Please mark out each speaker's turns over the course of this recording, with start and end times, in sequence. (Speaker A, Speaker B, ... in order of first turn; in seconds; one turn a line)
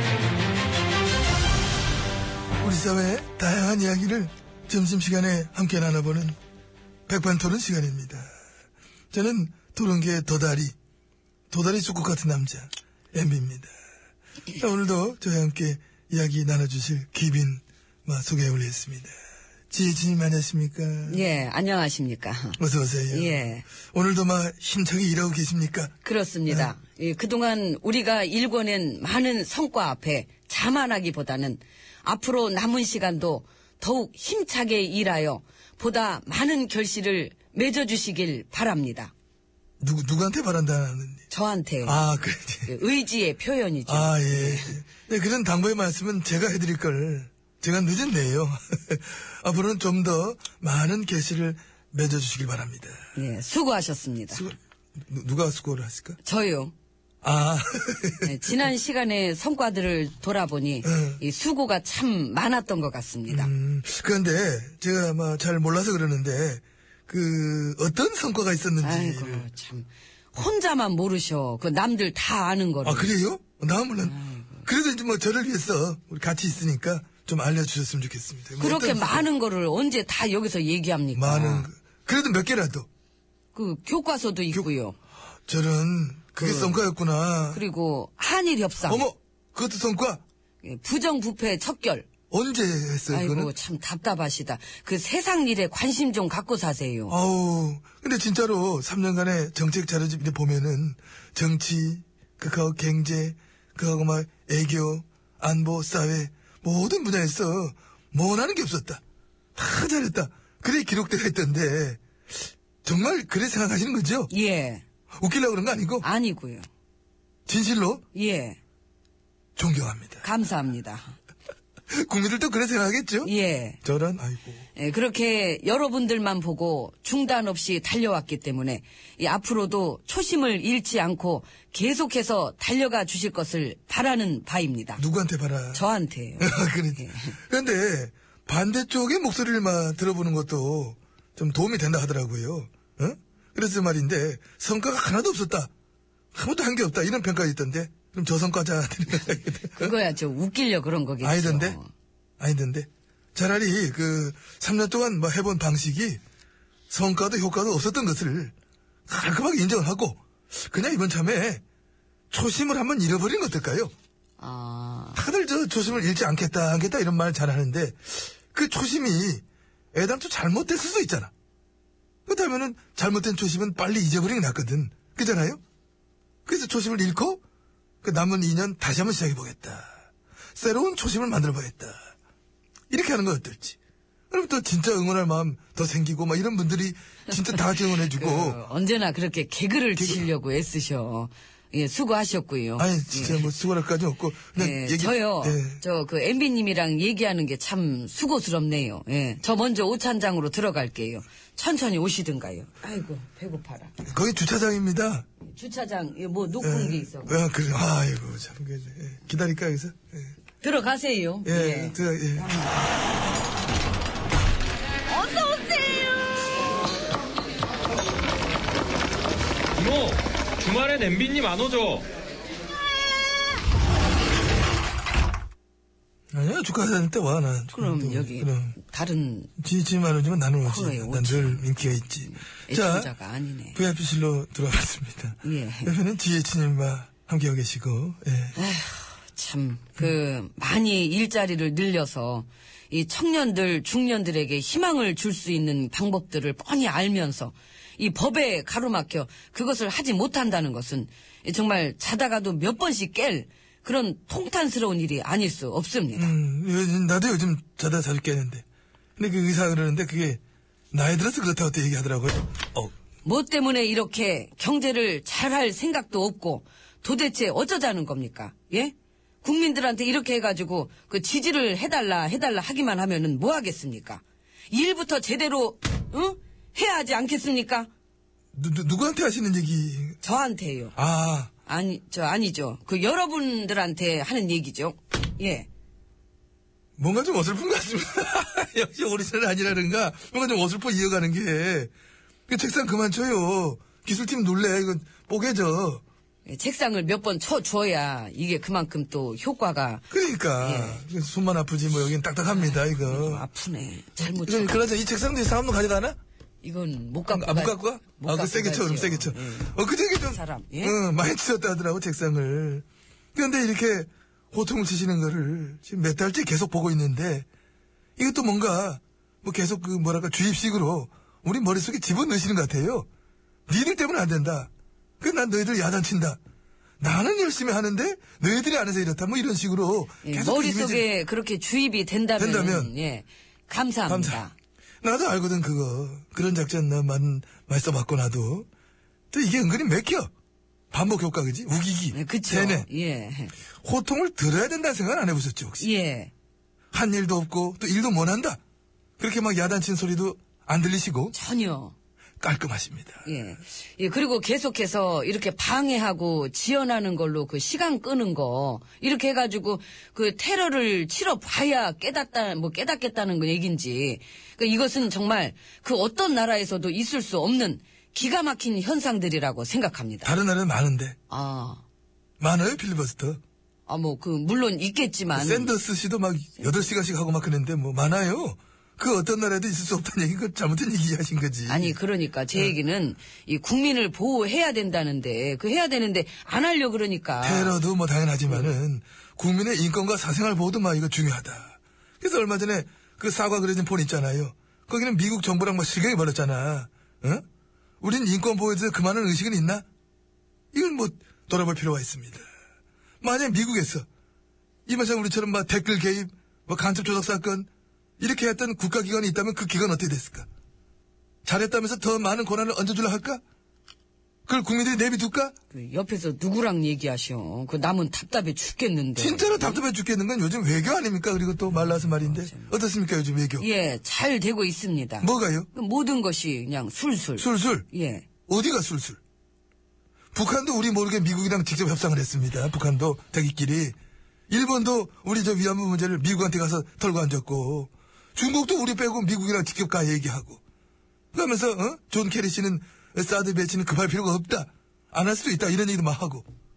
Speaker A: 2.6-6.4
Speaker A: 7.1-8.3
Speaker A: 9.1-10.7
Speaker A: 11.5-13.7
Speaker A: 14.5-19.1
Speaker A: 19.7-21.4
Speaker B: 21.1-22.6
Speaker A: 22.6-25.9
Speaker B: 23.1-23.6
Speaker B: 26.0-39.1
Speaker A: 26.5-26.7
Speaker A: 39.8-41.2
Speaker B: 41.3-42.0
Speaker A: 41.8-42.7
Speaker B: 42.6-44.8
Speaker A: 43.9-53.1
Speaker B: 53.1-54.4
Speaker A: 54.3-56.2
Speaker B: 56.2-56.7
Speaker A: 57.2-58.7
Speaker B: 58.2-63.5
Speaker A: 60.8-61.2
Speaker A: 63.3-69.5
Speaker B: 68.8-73.1
Speaker A: 72.8-79.3
Speaker B: 74.0-74.7
Speaker B: 78.6-81.7
Speaker A: 81.1-82.9
Speaker B: 83.5-85.0
Speaker A: 85.5-87.6
Speaker B: 86.4-86.9
Speaker B: 87.5-89.0
Speaker A: 88.9-90.2
Speaker B: 90.6-92.1
Speaker A: 92.3-93.5
Speaker B: 93.1-97.2
Speaker A: 97.1-109.0
Speaker A: 109.5-112.0
Speaker A: 112.8-114.3
Speaker B: 114.3-114.8
Speaker A: 115.2-116.0
Speaker B: 116.0-116.7
Speaker A: 117.5-118.0
Speaker B: 118.1-118.6
Speaker A: 119.6-120.2
Speaker B: 120.2-121.2
Speaker A: 121.9-123.3
Speaker B: 123.2-123.8
Speaker A: 123.8-124.7
Speaker B: 124.7-135.0
Speaker A: 135.0-135.8
Speaker B: 135.7-137.3
Speaker A: 136.4-145.7
Speaker A: 146.3-149.9
Speaker B: 149.8-151.9
Speaker A: 151.2-151.8
Speaker A: 152.4-156.2
Speaker A: 156.9-158.5
Speaker A: 159.1-161.6
Speaker A: 162.3-163.9
Speaker B: 164.4-165.2
Speaker A: 165.2-169.4
Speaker A: 169.9-171.3
Speaker A: 172.3-175.6
Speaker A: 176.4-177.4
Speaker A: 178.0-180.0
Speaker A: 180.5-182.1
Speaker A: 182.9-183.8
Speaker A: 184.3-188.6
Speaker B: 188.0-193.5
Speaker A: 190.0-190.2
Speaker A: 192.8-195.8
Speaker B: 194.6-203.9
Speaker A: 204.0-205.2
Speaker B: 205.4-207.4
Speaker A: 206.6-210.3
Speaker B: 210.6-212.0
Speaker A: 211.4-212.7
Speaker B: 215.1-216.1
Speaker C: 219.7-222.1
Speaker A: 226.3-228.8
Speaker B: 227.7-229.5
Speaker A: 229.6-233.1
Speaker B: 230.6-233.8
Speaker A: 233.7-238.6
Speaker B: 235.4-235.9
Speaker B: 238.5-256.3
Speaker A: 256.1-258.6
Speaker A: 259.2-260.4
Speaker A: 260.9-262.9
Speaker B: 263.2-277.9
Speaker A: 278.5-280.2
Speaker B: 280.2-280.9
Speaker A: 280.9-281.5
Speaker B: 281.6-285.7
Speaker A: 287.0-291.9
Speaker A: 292.5-296.0
Speaker B: 296.4-301.0
Speaker A: 300.1-303.4
Speaker B: 302.5-304.8
Speaker A: 304.2-306.2
Speaker B: 306.6-311.0
Speaker A: 307.3-317.5
Speaker A: 318.2-323.1
Speaker A: 323.7-324.7
Speaker A: 325.2-326.4
Speaker A: 327.0-331.1
Speaker B: 330.2-334.5
Speaker A: 332.4-332.9
Speaker A: 334.1-334.4
Speaker A: 335.0-338.7
Speaker A: 339.3-340.3
Speaker A: 340.9-342.9
Speaker B: 342.1-343.5
Speaker A: 343.8-345.9
Speaker B: 345.8-346.3
Speaker A: 346.9-348.6
Speaker A: 349.2-351.3
Speaker B: 351.3-351.9
Speaker A: 352.4-353.3
Speaker B: 353.2-370.3
Speaker A: 370.2-371.2
Speaker B: 371.3-371.8
Speaker A: 372.4-373.4
Speaker B: 373.9-375.7
Speaker A: 375.3-382.0
Speaker B: 381.7-387.8
Speaker A: 387.4-397.4
Speaker A: 398.0-399.9
Speaker A: 400.7-402.5
Speaker A: 403.2-404.1
Speaker A: 404.9-407.7
Speaker A: 408.2-410.5
Speaker A: 411.4-413.4
Speaker A: 414.5-415.5
Speaker B: 415.7-419.8
Speaker A: 419.1-423.6
Speaker B: 421.8-422.7
Speaker B: 423.6-428.2
Speaker A: 425.2-425.7
Speaker A: 427.4-427.9
Speaker A: 428.5-429.2
Speaker A: 430.3-433.9
Speaker A: 434.5-440.6
Speaker A: 441.3-446.4